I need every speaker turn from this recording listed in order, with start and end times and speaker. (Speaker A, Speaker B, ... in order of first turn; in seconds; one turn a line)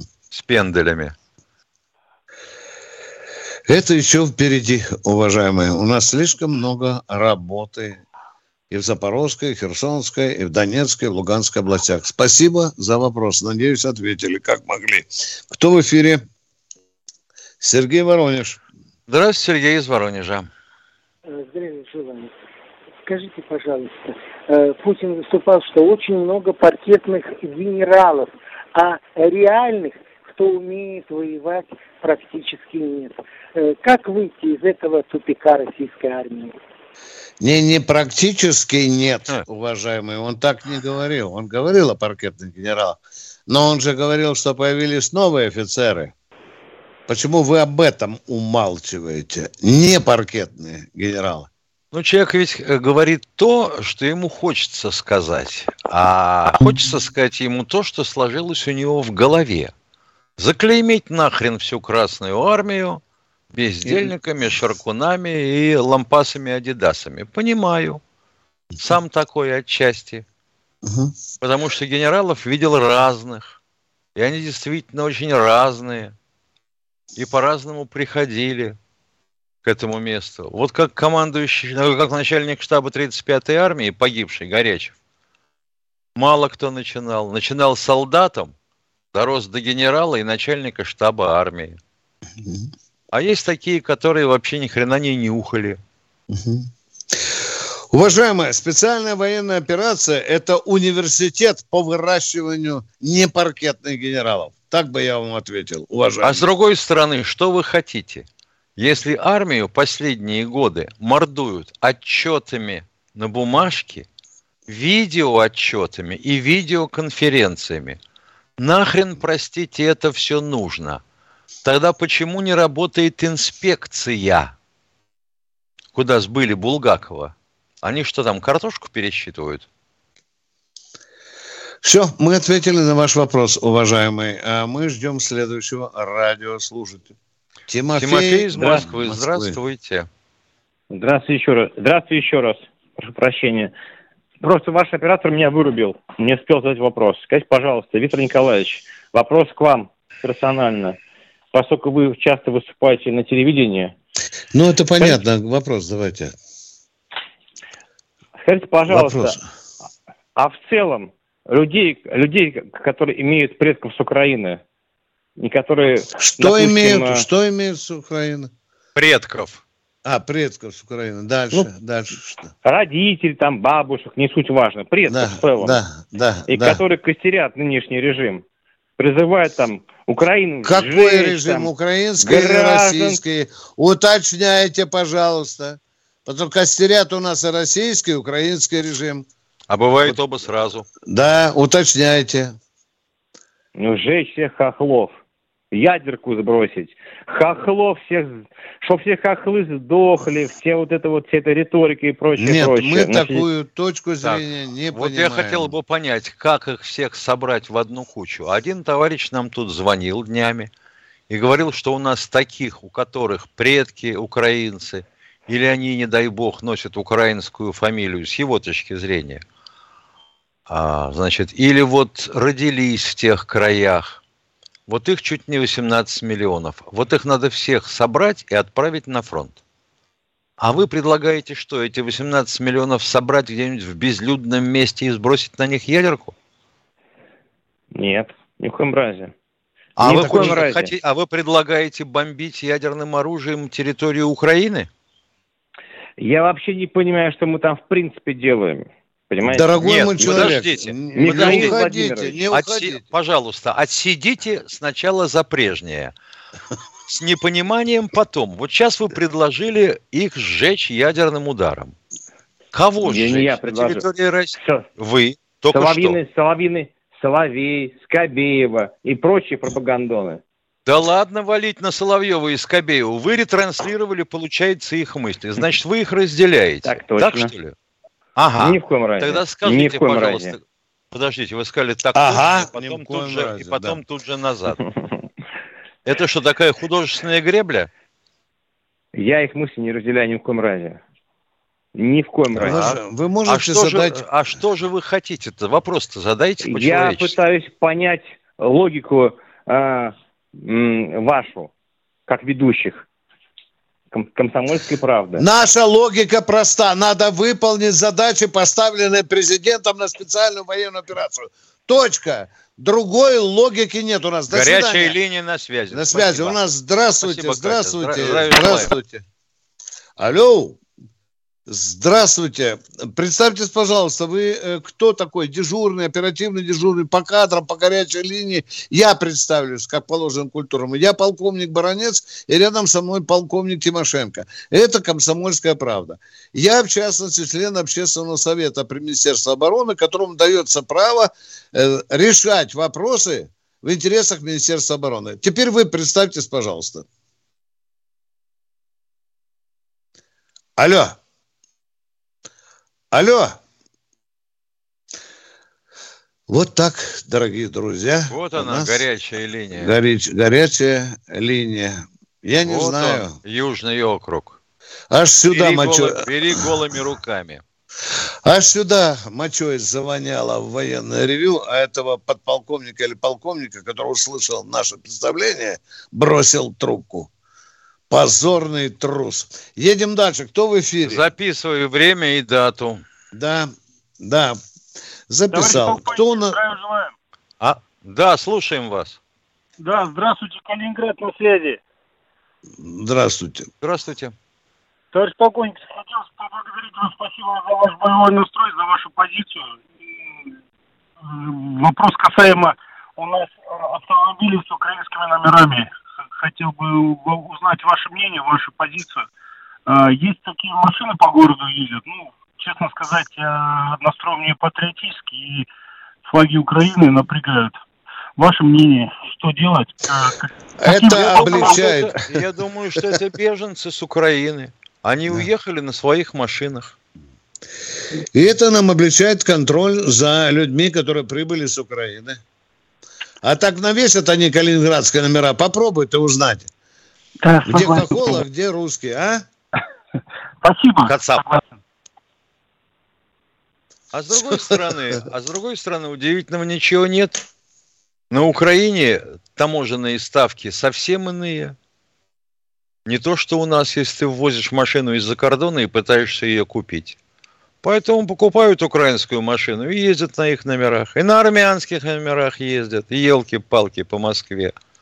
Speaker A: 0.3-1.1
Speaker B: 3.7-8.0
Speaker B: 8.7-16.2
Speaker B: 17.6-18.6
Speaker A: 19.1-20.5
Speaker C: 21.3-22.3
Speaker C: 23.1-36.5
Speaker B: 37.4-46.1
Speaker B: 47.1-51.5
Speaker A: 51.9-59.7
Speaker A: 60.4-63.0
Speaker A: 63.5-68.0
Speaker B: 63.8-64.1
Speaker A: 68.8-70.2
Speaker B: 70.8-71.1
Speaker A: 71.4-73.5
Speaker A: 74.2-76.1
Speaker A: 77.2-78.8
Speaker A: 79.6-84.9
Speaker A: 86.2-88.5
Speaker A: 89.1-91.8
Speaker A: 93.1-95.8
Speaker B: 96.3-106.4
Speaker A: 106.2-108.2
Speaker A: 108.8-114.1
Speaker A: 114.7-118.0
Speaker A: 118.6-121.0
Speaker A: 121.6-124.5
Speaker A: 125.9-129.7
Speaker B: 131.8-137.1
Speaker B: 137.7-139.6
Speaker A: 137.9-140.1
Speaker D: 140.9-143.7
Speaker D: 144.4-151.0
Speaker D: 151.5-153.9
Speaker B: 154.5-156.3
Speaker D: 158.4-159.4
Speaker B: 158.9-159.4
Speaker D: 160.3-164.6
Speaker D: 165.4-167.2
Speaker B: 166.2-168.5
Speaker A: 168.9-169.6
Speaker B: 170.0-172.5
Speaker D: 172.6-175.8
Speaker B: 175.0-176.8
Speaker D: 176.5-178.4
Speaker D: 179.0-183.2
Speaker B: 180.6-189.2
Speaker A: 189.7-190.8
Speaker B: 191.1-192.6
Speaker D: 193.8-195.1
Speaker D: 195.7-203.4
Speaker B: 202.4-205.7
Speaker A: 204.2-210.7
Speaker A: 211.3-219.4
Speaker A: 220.7-224.2
Speaker A: 224.9-229.6
Speaker A: 230.6-236.3
Speaker D: 237.9-239.3
Speaker A: 240.0-244.9
Speaker D: 240.0-240.9
Speaker B: 240.1-240.6
Speaker D: 246.2-250.6
Speaker B: 249.4-253.0
Speaker A: 249.8-251.8
Speaker D: 251.1-252.3
Speaker A: 252.5-256.1
Speaker A: 257.1-261.9
Speaker A: 262.7-266.2
Speaker D: 263.0-264.0
Speaker D: 264.6-264.8
Speaker D: 265.7-270.4
Speaker A: 270.9-277.7
Speaker D: 276.8-277.5
Speaker A: 278.4-280.6
Speaker D: 278.6-280.5
Speaker A: 281.1-284.8
Speaker B: 282.1-284.0
Speaker A: 286.1-287.9
Speaker D: 289.1-291.0
Speaker D: 291.9-292.8
Speaker B: 292.6-294.2
Speaker A: 292.6-297.3
Speaker D: 296.6-301.7
Speaker D: 302.3-303.0
Speaker D: 304.1-305.4
Speaker B: 305.4-315.2
Speaker A: 314.5-316.6
Speaker B: 315.9-319.2
Speaker A: 317.2-318.9
Speaker B: 320.2-320.8
Speaker B: 321.7-347.1
Speaker B: 350.8-351.2
Speaker B: 353.1-353.6
Speaker B: 356.5-359.0
Speaker A: 358.3-360.0
Speaker B: 359.8-363.3
Speaker A: 362.6-364.6
Speaker B: 365.1-366.7
Speaker A: 365.5-367.6
Speaker B: 368.4-377.3
Speaker B: 378.1-381.3
Speaker A: 381.0-383.0
Speaker B: 383.3-384.6
Speaker B: 385.3-386.6
Speaker E: 385.5-387.1
Speaker A: 387.6-389.2
Speaker E: 389.8-391.8
Speaker B: 392.8-393.7
Speaker A: 393.8-394.3
Speaker E: 395.1-400.5
Speaker E: 401.2-409.3
Speaker E: 409.9-415.7
Speaker E: 416.3-417.8
Speaker E: 418.4-422.1
Speaker B: 420.8-422.1
Speaker A: 421.0-426.9
Speaker B: 428.3-432.4
Speaker B: 433.4-436.7
Speaker E: 437.4-438.4
Speaker B: 437.6-439.4
Speaker E: 440.6-441.7
Speaker A: 441.0-441.5
Speaker A: 444.1-447.3
Speaker B: 444.3-444.9
Speaker A: 448.3-451.7
Speaker A: 453.1-457.2
Speaker A: 457.8-464.7